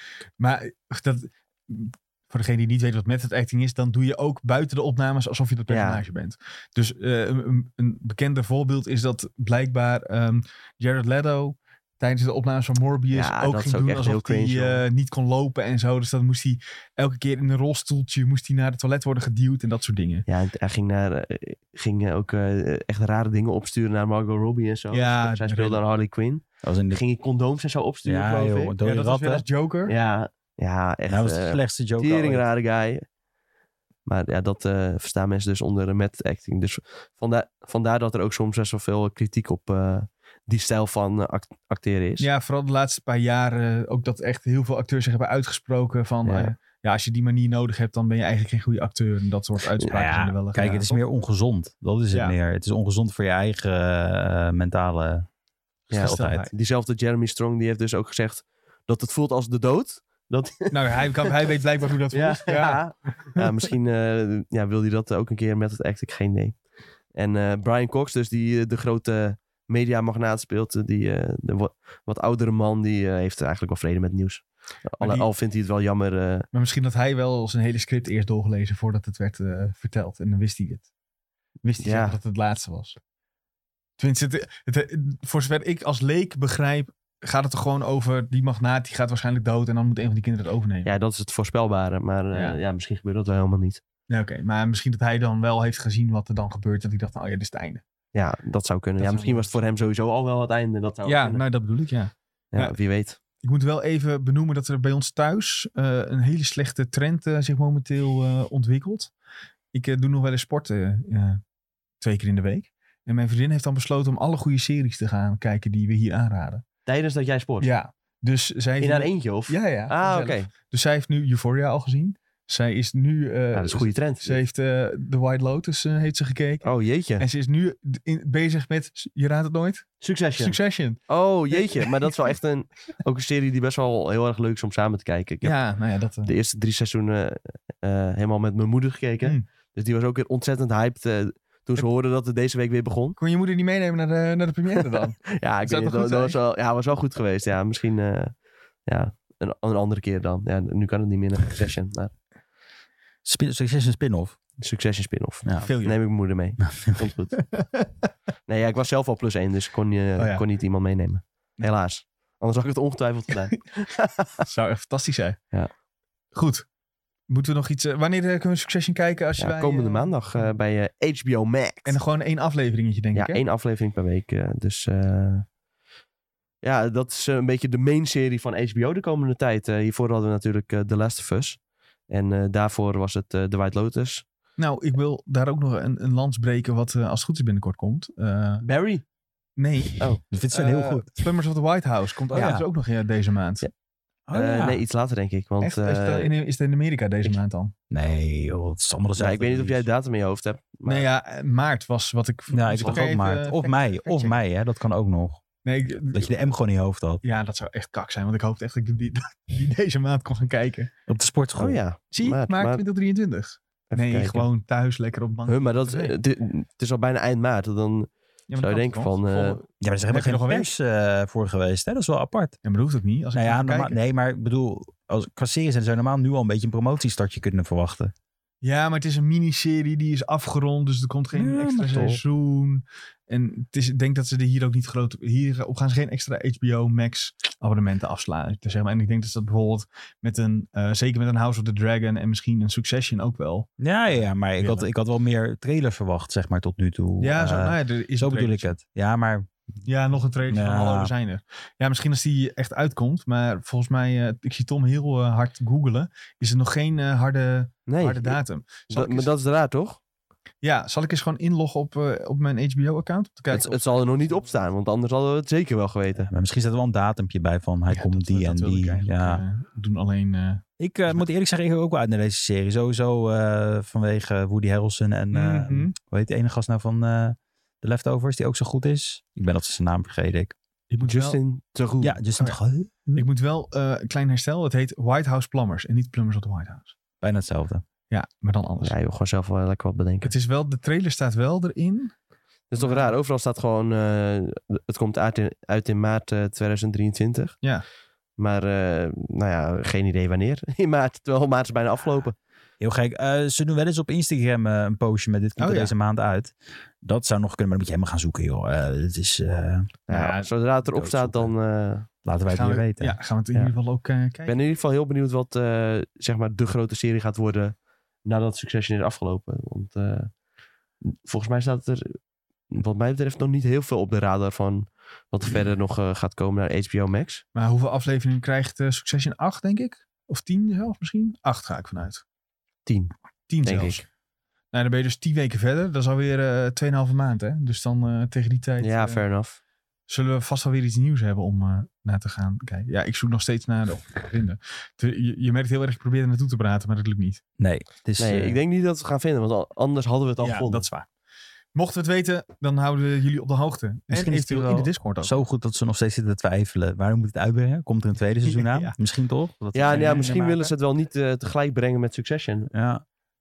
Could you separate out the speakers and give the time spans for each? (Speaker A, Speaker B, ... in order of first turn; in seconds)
Speaker A: 0.4-20.2, 24.9-25.8, 28.8-29.9, 42.2-51.0, 55.9-56.5, 60.7-63.4, 75.0-75.3, 76.5-80.9, 81.6-83.0, 84.0-90.9, 92.3-92.6, 94.1-97.8, 99.0-99.6, 101.0-102.8, 103.4-109.1, 109.7-111.4, 112.0-116.6, 117.6-126.7, 127.2-131.0, 131.5-132.3, 135.4-136.3, 143.2-146.4, 155.6-156.0, 157.4-158.1, 160.2-160.4, 164.4-165.4, 166.3-166.7, 167.3-170.5, 171.9-173.4, 184.6-188.7, 189.6-193.7, 195.6-197.7, 200.8-204.4, 205.7-206.5, 207.2-210.9, 212.1-216.1, 218.5-220.7, 222.6-224.0, 228.6-244.9, 247.2-248.8, 249.8-259.3, 260.6-264.4, 267.9-271.2, 275.3-275.9, 280.9-281.4, 283.2-286.9, 288.1-288.9, 290.2-292.1, 292.8-293.1, 305.6-305.9, 310.1-310.5, 312.5-314.6, 327.6-332.2, 333.5-334.0, 334.7-339.2, 340.1-347.4, 350.4-351.1, 351.8-355.4, 358.4-359.0, 359.8-360.7
Speaker B: 5.7-6.0, 13.1-14.8, 20.3-28.7, 29.9-33.0, 34.1-42.3, 46.3-46.5, 55.9-61.3, 62.1-76.5, 81.8-82.2, 90.8-93.8, 98.1-101.4, 102.5-103.2, 116.9-117.7, 118.8-120.5, 123.5-124.4, 126.6-127.2, 130.0-130.6, 131.1-135.7, 136.2-143.2, 144.9-152.1, 154.6-157.5, 158.5-164.5, 169.4-172.0, 173.2-175.5, 176.6-184.2, 188.6-189.0, 194.3-196.3, 199.2-201.1, 211.6-212.8, 213.9-214.5, 215.5-219.6, 257.9-260.0, 263.5-266.3, 281.0-282.2, 288.8-290.3, 292.7-297.6, 298.4-302.4, 310.1-312.1, 314.5-317.7, 318.2-320.3, 321.1-322.2, 322.7-327.4, 332.9-333.1, 333.6-334.0, 338.8-339.6, 348.2-350.9, 359.7-362.7
Speaker C: 26.6-27.0, 28.1-29.4, 31.1-32.5, 49.9-55.3, 55.9-56.4, 153.2-154.4, 156.7-157.0, 190.3-191.1, 192.3-192.7, 194.3-194.8, 197.9-199.9, 202.5-205.4, 206.1-207.2, 211.1-211.8, 219.8-222.6, 223.3-228.1, 231.3-232.2, 243.8-249.5, 250.5-251.1, 266.3-269.4, 270.8-280.5, 282.0-283.3, 287.2-287.8, 302.8-309.9, 310.9-311.5, 312.2-313.2, 347.6-348.6, 354.1-360.4, 362.7-363.0